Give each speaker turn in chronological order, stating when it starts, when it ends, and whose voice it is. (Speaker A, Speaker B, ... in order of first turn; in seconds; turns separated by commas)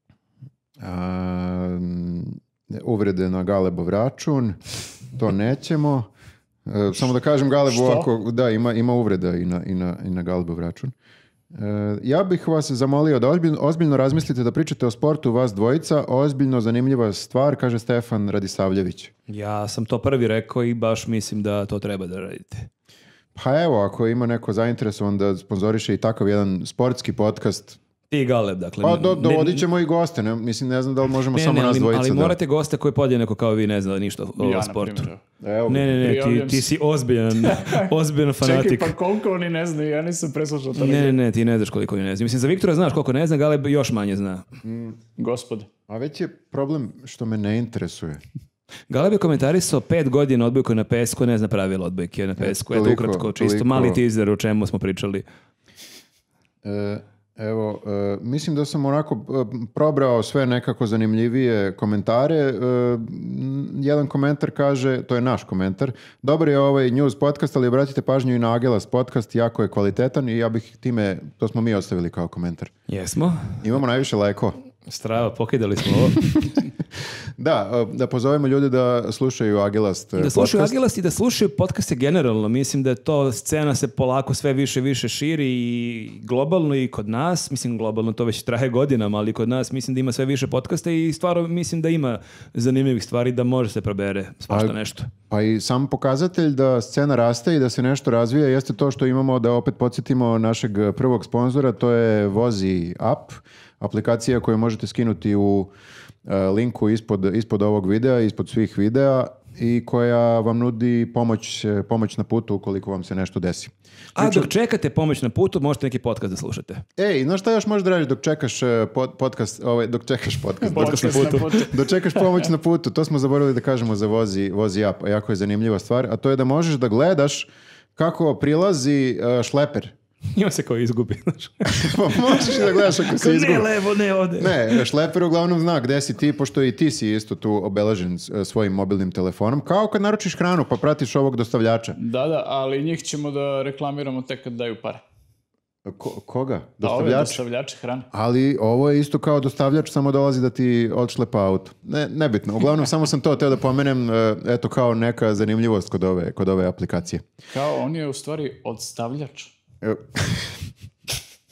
Speaker A: 0.8-4.6, Speaker A: 5.1-6.1, Speaker A: 6.7-10.9, Speaker B: 7.7-8.1, Speaker A: 11.5-19.1, Speaker C: 19.3-22.7, Speaker A: 23.4-27.8, Speaker C: 28.1-29.7, Speaker A: 28.8-32.4, Speaker C: 31.3-35.1, Speaker B: 34.4-35.2, Speaker A: 35.4-36.1, Speaker C: 35.7-38.9, Speaker B: 36.0-36.7, Speaker B: 37.4-41.2, Speaker C: 40.8-44.5, Speaker A: 44.6-45.0, Speaker B: 45.2-45.7, Speaker A: 45.9-48.2, Speaker C: 48.9-55.2, Speaker A: 52.4-54.0, Speaker A: 56.6-72.7, Speaker C: 72.9-73.7, Speaker A: 73.6-74.6, Speaker C: 74.9-76.2, Speaker A: 76.2-76.6, Speaker A: 77.4-80.8, Speaker C: 80.2-95.1, Speaker A: 94.5-94.8, Speaker A: 95.3-105.7, Speaker A: 106.2-114.5, Speaker C: 114.2-116.8, Speaker A: 117.0-129.9, Speaker B: 120.6-122.5, Speaker C: 120.7-121.6, Speaker C: 130.3-134.8, Speaker A: 131.7-133.7, Speaker A: 134.4-142.0, Speaker B: 142.0-145.0, Speaker A: 145.8-147.4, Speaker B: 146.8-148.1, Speaker A: 148.1-157.2, Speaker B: 157.5-159.5, Speaker A: 159.8-160.7